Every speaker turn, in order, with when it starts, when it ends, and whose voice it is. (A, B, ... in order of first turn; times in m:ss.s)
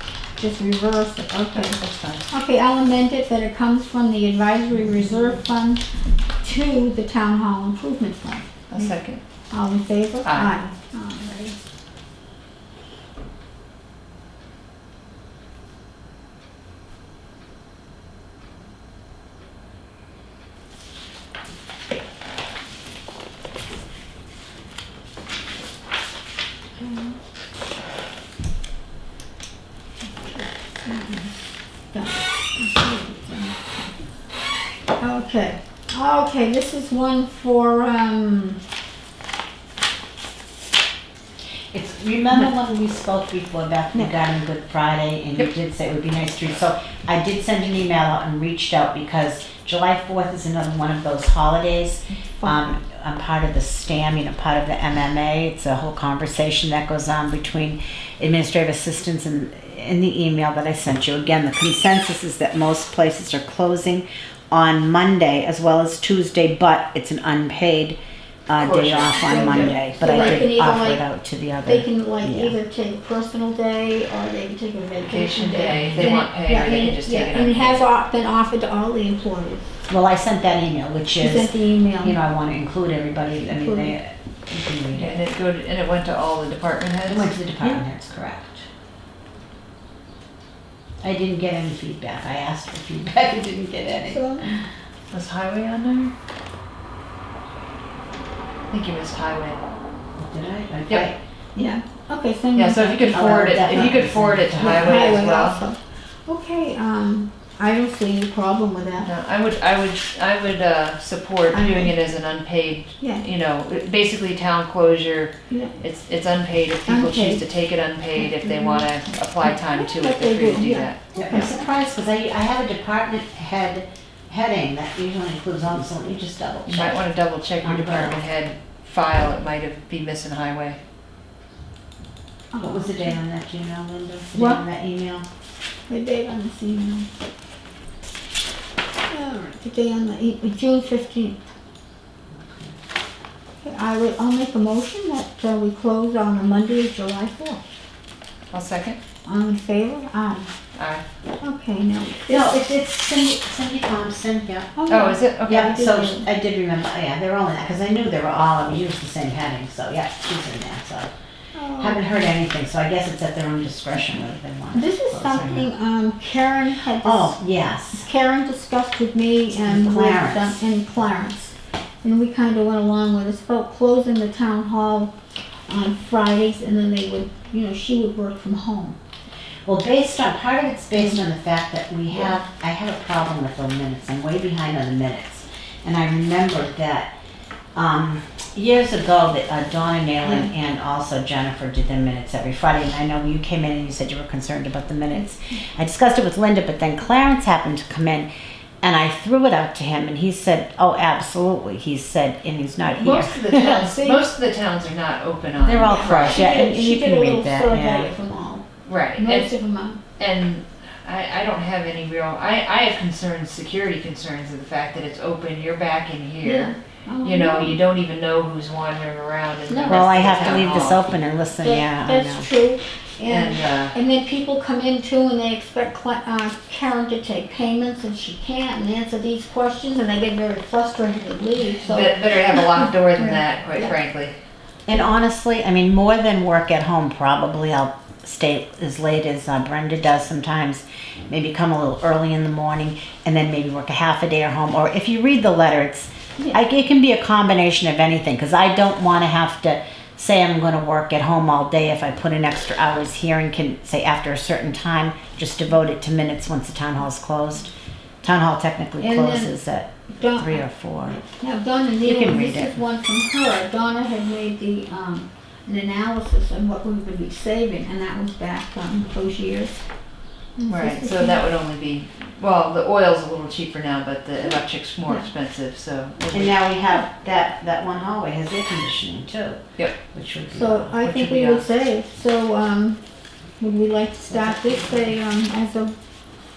0:00.4-0:01.8 A
0:01.5-0:02.3 B
0:02.3-0:05.8 A
0:06.4-0:08.9 A
0:08.7-0:09.2 B
0:09.5-0:11.6 A
0:10.2-0:10.5 B
0:26.8-0:27.2 A
0:30.1-0:31.4 A
0:31.9-0:34.0 A
0:35.0-0:38.6 A
0:41.7-1:12.5 C
0:52.4-0:52.7 A
1:08.6-1:10.4 B
1:09.1-1:11.0 A
1:11.6-1:19.6 A
1:15.0-1:17.9 B
1:19.9-1:25.2 C
1:21.2-1:22.2 A
1:23.5-1:24.0 A
1:24.9-1:27.8 B
1:27.1-1:28.6 C
1:31.0-1:34.4 C
1:34.0-1:34.5 A
1:35.1-1:36.1 B
1:38.7-1:39.6 B
1:40.2-1:41.2 C
1:41.5-1:43.9 A
1:42.5-1:45.6 B
1:43.1-1:45.2 C
1:44.5-1:49.1 A
1:49.0-2:01.0 B
1:51.5-1:51.9 A
1:56.9-1:57.4 A
1:58.1-1:58.9 A
1:59.4-2:01.5 A
2:01.1-2:07.0 C
2:06.6-2:10.8 B
2:07.6-2:08.2 C
2:12.5-2:13.2 A
2:12.6-2:15.3 C
2:14.3-2:14.6 A
2:15.9-2:17.1 A
2:19.1-2:21.4 A
2:22.4-2:22.8 C
2:23.6-2:27.6 A
2:28.5-2:29.0 B
2:29.2-2:30.5 A
2:30.7-2:31.0 B
2:31.4-2:32.7 A
2:32.3-2:34.7 C
2:34.8-2:36.3 A
2:34.9-2:35.7 B
2:35.4-2:41.1 C
2:41.5-2:42.0 A
2:41.8-2:45.6 C
2:44.7-2:47.4 A
2:45.3-2:45.6 B
2:47.0-2:48.0 C
2:48.0-2:55.1 A
2:49.6-2:50.6 C
2:55.7-2:59.0 A
2:59.6-3:07.1 C
3:07.7-3:18.3 C
3:10.2-3:10.5 A
3:18.8-3:23.8 C
3:23.0-3:24.3 A
3:23.0-3:26.5 B
3:25.6-3:28.1 C
3:25.8-3:28.6 A
3:28.8-3:29.5 B
3:29.2-3:30.0 A
3:30.2-3:41.0 B
3:36.4-3:37.8 A
3:39.7-3:40.7 A
3:39.9-3:42.5 C
3:41.6-3:53.9 A
3:43.2-3:43.9 B
3:51.8-3:54.4 B
3:54.9-4:17.7 C
4:18.2-4:21.2 C
4:19.0-4:19.5 A
4:20.1-4:20.6 A
4:21.2-4:29.8 A
4:22.0-4:22.8 C
4:30.6-4:31.4 A
4:30.7-4:36.6 B
4:36.3-4:41.0 C
4:40.5-4:43.0 A
4:41.0-4:41.7 B
4:43.6-4:45.9 A
4:44.3-4:45.0 C